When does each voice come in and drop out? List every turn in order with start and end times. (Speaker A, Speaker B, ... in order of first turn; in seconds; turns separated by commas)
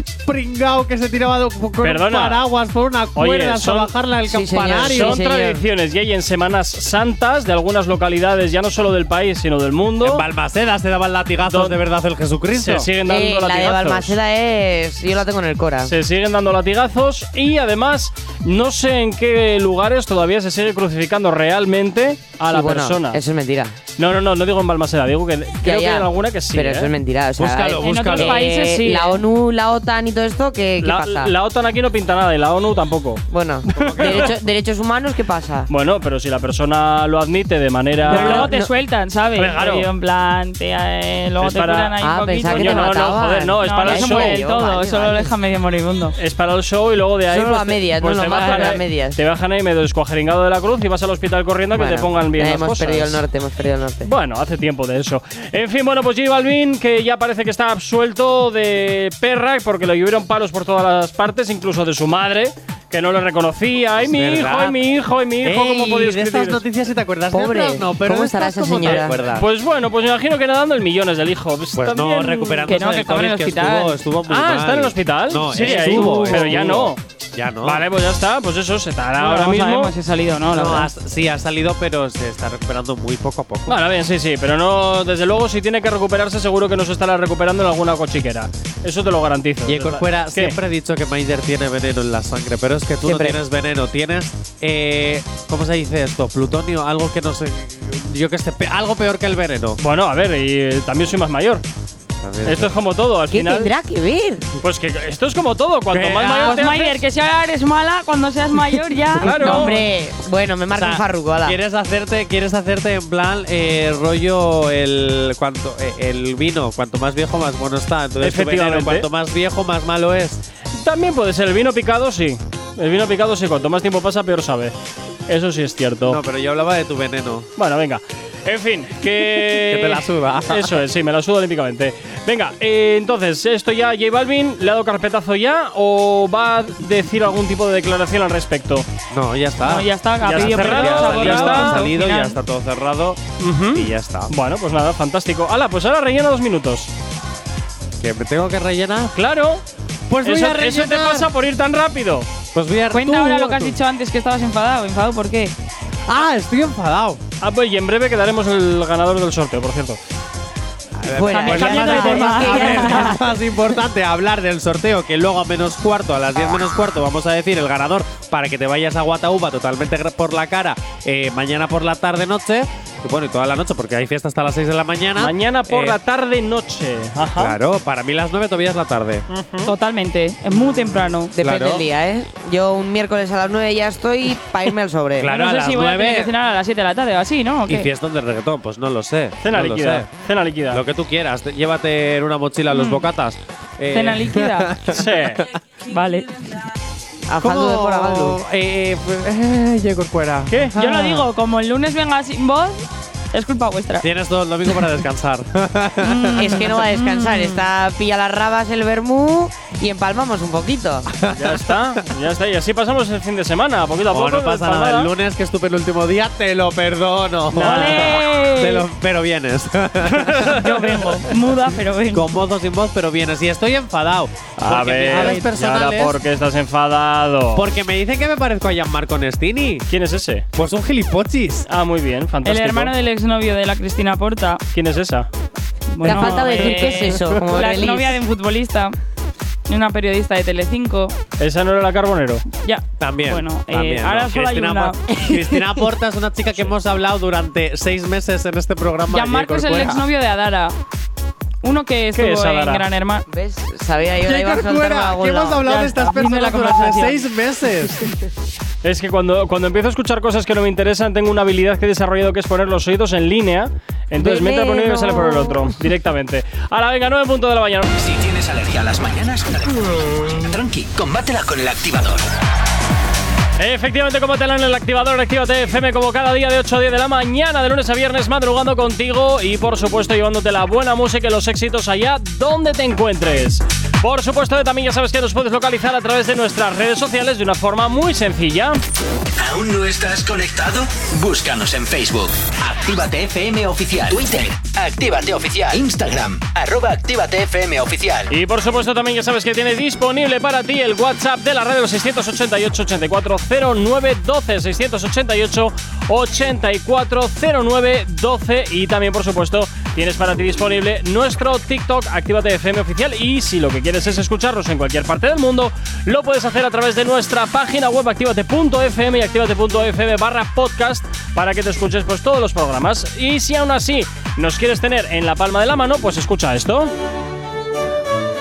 Speaker A: 0.2-5.2, Speaker B: 1.8-2.5, Speaker B: 3.1-3.9, Speaker C: 4.2-5.6, Speaker B: 4.8-10.2, Speaker A: 10.0-12.9, Speaker B: 11.5-11.8, Speaker B: 12.5-14.2, Speaker C: 13.0-15.9, Speaker B: 15.8-23.2, Speaker C: 22.5-23.7, Speaker B: 24.0-26.9, Speaker C: 25.6-31.3, Speaker A: 27.4-28.4, Speaker D: 27.8-29.2, Speaker B: 30.8-33.2, Speaker C: 33.3-35.7, Speaker B: 33.7-34.3, Speaker A: 33.8-34.3, Speaker B: 35.7-38.5, Speaker C: 38.0-38.7, Speaker D: 38.1-46.1, Speaker B: 39.4-39.9, Speaker B: 41.4-41.9, Speaker C: 42.0-45.3, Speaker B: 42.5-44.4, Speaker B: 46.2-53.2, Speaker C: 47.3-49.2, Speaker C: 51.7-54.1, Speaker B: 54.0-66.6, Speaker A: 64.0-64.8, Speaker A: 65.4-69.5, Speaker C: 67.3-69.2, Speaker B: 68.8-72.7, Speaker A: 71.7-77.8, Speaker D: 72.7-74.0, Speaker B: 74.3-77.0, Speaker D: 75.6-76.3, Speaker B: 77.6-79.9, Speaker D: 79.2-80.9, Speaker A: 80.5-83.8, Speaker B: 83.7-90.5, Speaker A: 89.7-99.8, Speaker C: 93.0-93.4, Speaker B: 99.8-101.6, Speaker A: 102.2-102.7, Speaker B: 102.4-103.7, Speaker C: 103.3-104.5, Speaker B: 104.6-107.0, Speaker A: 105.9-106.8, Speaker D: 106.3-109.8, Speaker B: 109.2-109.8, Speaker C: 109.2-111.6, Speaker A: 110.8-120.4, Speaker B: 118.2-119.1, Speaker B: 120.7-124.7, Speaker B: 125.3-126.2, Speaker A: 126.0-127.5, Speaker B: 127.6-138.8, Speaker A: 129.2-130.8, Speaker A: 139.1-144.3, Speaker D: 139.6-142.4, Speaker B: 140.2-141.8, Speaker B: 143.4-146.9, Speaker A: 148.0-149.2, Speaker B: 149.1-149.6, Speaker A: 150.1-151.3, Speaker B: 150.2-152.3, Speaker A: 152.5-153.7, Speaker D: 152.9-155.5, Speaker A: 156.1-157.2, Speaker B: 157.4-160.0, Speaker A: 161.0-176.0, Speaker C: 161.1-163.3, Speaker D: 161.2-163.2, Speaker B: 175.2-177.6, Speaker A: 177.4-179.2, Speaker B: 179.3-179.7, Speaker D: 179.6-181.3, Speaker C: 181.3-185.3, Speaker A: 181.3-181.8, Speaker A: 185.2-186.3, Speaker D: 185.3-187.9, Speaker A: 187.7-190.1, Speaker B: 189.4-190.8, Speaker A: 190.7-195.4, Speaker D: 192.7-193.0, Speaker D: 193.9-194.7, Speaker B: 194.9-195.4, Speaker D: 195.9-196.3, Speaker C: 197.3-198.4, Speaker A: 197.4-201.3, Speaker B: 200.5-200.7, Speaker D: 200.8-204.1, Speaker A: 204.0-206.8, Speaker D: 206.0-207.7, Speaker C: 206.3-211.1, Speaker A: 211.1-212.0, Speaker B: 211.3-215.1, Speaker A: 214.1-221.1, Speaker D: 217.5-218.8, Speaker B: 217.6-218.2, Speaker D: 220.4-222.4, Speaker A: 222.1-226.2, Speaker B: 224.6-227.7, Speaker A: 227.5-229.8, Speaker B: 229.9-230.4, Speaker A: 230.5-231.7, Speaker B: 231.7-232.9, Speaker D: 232.4-234.6, Speaker B: 234.7-235.3, Speaker D: 235.9-238.9, Speaker C: 236.0-238.2, Speaker A: 236.5-237.4, Speaker D: 239.7-241.1, Speaker B: 241.4-242.4, Speaker D: 242.6-245.0, Speaker A: 243.0-250.0, Speaker D: 249.1-250.7, Speaker D: 251.6-253.2, Speaker B: 252.1-252.8, Speaker C: 253.3-255.6, Speaker A: 254.2-258.1, Speaker D: 255.6-257.2, Speaker B: 258.8-267.9, Speaker C: 264.1-265.7, Speaker E: 267.9-272.2, Speaker B: 273.6-288.8, Speaker E: 289.4-298.3, Speaker B: 298.3-326.9